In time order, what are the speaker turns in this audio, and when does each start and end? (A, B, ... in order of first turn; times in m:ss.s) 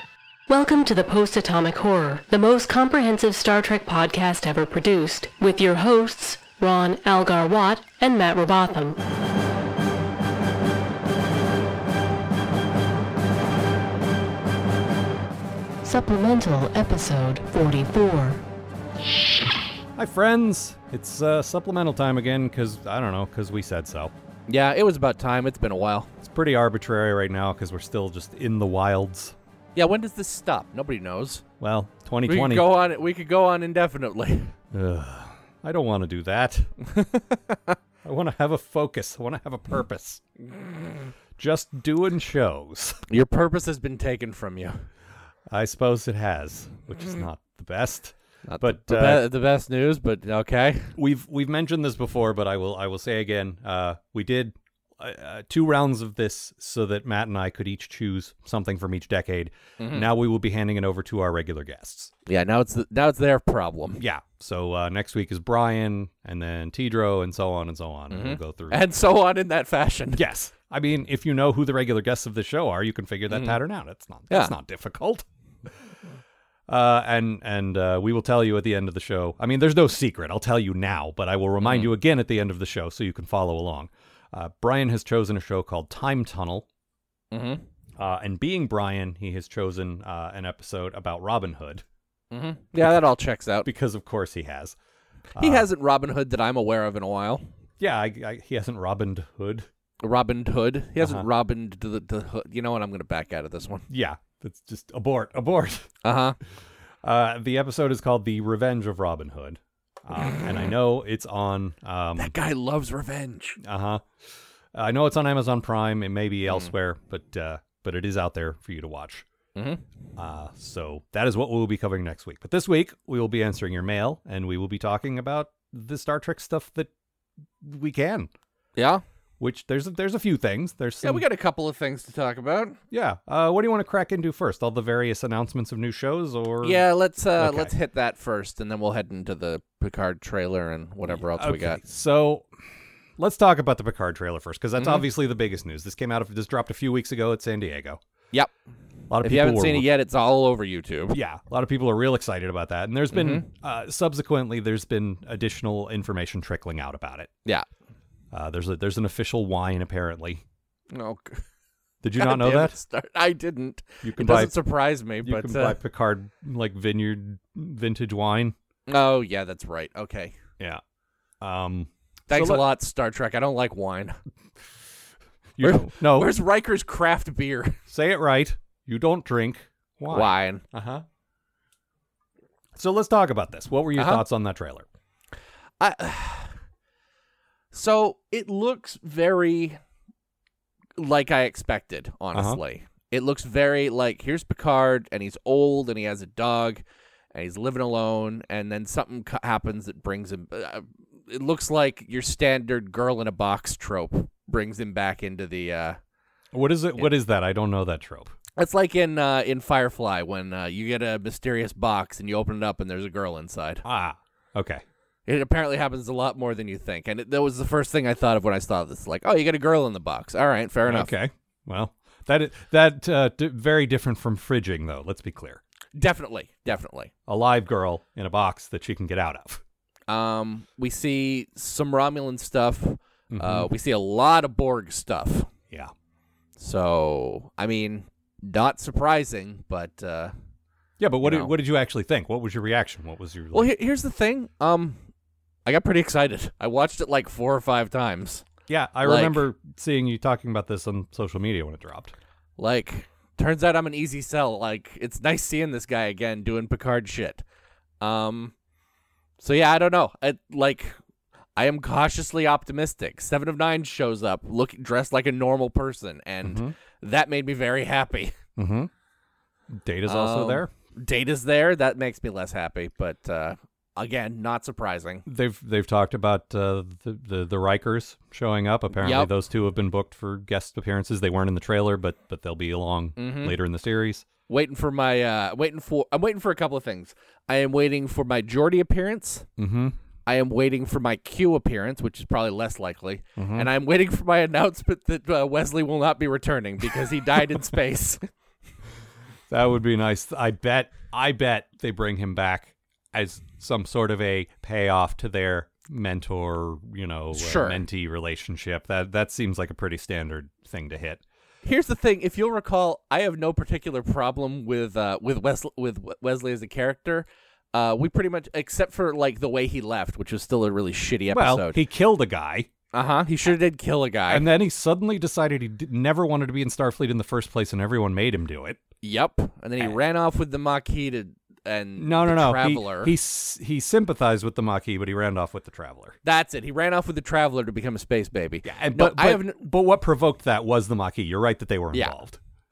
0:00.5-0:09.0 A
0:15.8-0:18.4 A
0:20.0-0:24.1 B
0:24.5-0:26.1 C
0:26.2-0:29.4 B
0:29.8-0:31.4 C
0:31.6-0:32.7 B
0:32.3-0:34.6 C
0:34.7-0:36.7 B
0:36.9-0:37.8 C
0:38.0-0:40.2 B
0:41.4-0:43.0 B
0:43.1-0:44.8 C
0:45.5-0:49.3 B
0:48.5-0:51.0 C
0:51.0-1:02.1 B
0:59.8-1:00.1 C
1:02.3-1:04.0 C
1:04.0-1:08.8 B
1:08.1-1:10.2 C
1:10.2-1:15.3 B
1:13.3-1:13.6 C
1:16.7-1:26.7 B
1:21.6-1:21.9 C
1:27.3-1:27.6 C
1:28.0-1:31.8 B
1:32.3-1:33.7 C
1:33.6-1:34.8 B
1:35.4-1:35.7 B
1:35.4-1:37.5 C
1:37.8-1:39.7 B
1:40.0-1:43.8 C
1:41.0-1:41.3 B
1:43.9-1:45.9 B
1:46.0-1:46.4 C
1:47.0-1:52.3 B
1:50.2-1:50.6 C
1:52.2-1:53.6 C
1:53.6-1:54.0 B
1:54.7-1:59.2 B
1:59.6-1:59.8 C
2:00.2-2:06.9 B
2:07.6-2:08.3 B
2:08.8-2:09.0 C
2:09.4-2:11.2 B
2:11.0-2:12.8 C
2:12.9-2:16.8 B
2:16.6-2:21.8 C
2:17.4-2:17.7 B
2:21.2-2:22.5 B
2:23.2-2:28.0 B
2:24.8-2:25.1 C
2:29.1-2:29.9 B
2:29.2-2:31.2 C
2:31.1-2:37.3 B
2:33.1-2:33.5 C
2:38.3-2:40.4 B
2:40.9-2:41.4 C
2:42.0-2:42.8 B
2:42.2-2:45.8 C
2:44.0-2:44.6 B
2:45.2-2:48.6 B
2:48.9-2:50.4 C
2:51.4-2:52.7 B
2:52.3-2:54.2 C
2:55.6-2:56.3 B
2:55.6-2:57.8 C
2:57.9-3:01.0 B
3:00.1-3:00.6 C
3:02.8-3:04.8 B
3:04.0-3:04.2 C
3:05.8-3:06.5 C
3:07.7-3:09.8 C
3:11.0-3:26.0 C
3:12.3-3:12.6 B
3:26.5-3:28.3 B
3:28.6-3:33.8 C
3:33.8-3:34.8 B
3:35.3-3:41.1 C
3:40.9-3:45.6 B
3:46.0-3:47.1 C
3:47.3-3:49.6 B
3:50.1-3:55.5 C
3:53.3-3:53.7 B
3:56.6-4:00.3 C
4:01.0-4:03.7 B
4:01.2-4:01.5 C
4:03.5-4:05.0 C
4:05.6-4:08.5 C
4:08.7-4:12.1 B
4:09.0-4:09.4 C
4:12.6-4:17.4 C
4:18.0-4:18.5 C
4:19.4-4:21.0 C
4:21.6-4:28.4 C
4:26.4-4:26.7 B
4:28.6-4:28.9 B
4:29.7-4:30.7 B
4:30.1-4:35.2 C
4:35.2-4:44.2 B
4:39.0-4:39.3 C
4:43.2-4:43.6 C
4:44.5-4:49.5 C
4:49.6-4:50.0 B
4:50.3-4:58.2 C
4:53.4-4:53.7 B
4:59.5-5:11.2 B
5:07.3-5:07.8 C
5:11.6-5:21.8 C
5:21.3-5:22.7 B
5:22.9-5:24.5 C
5:24.3-5:28.8 B
5:29.0-5:33.1 C
5:32.0-5:36.2 B
5:36.2-5:39.6 C
5:38.6-5:42.4 B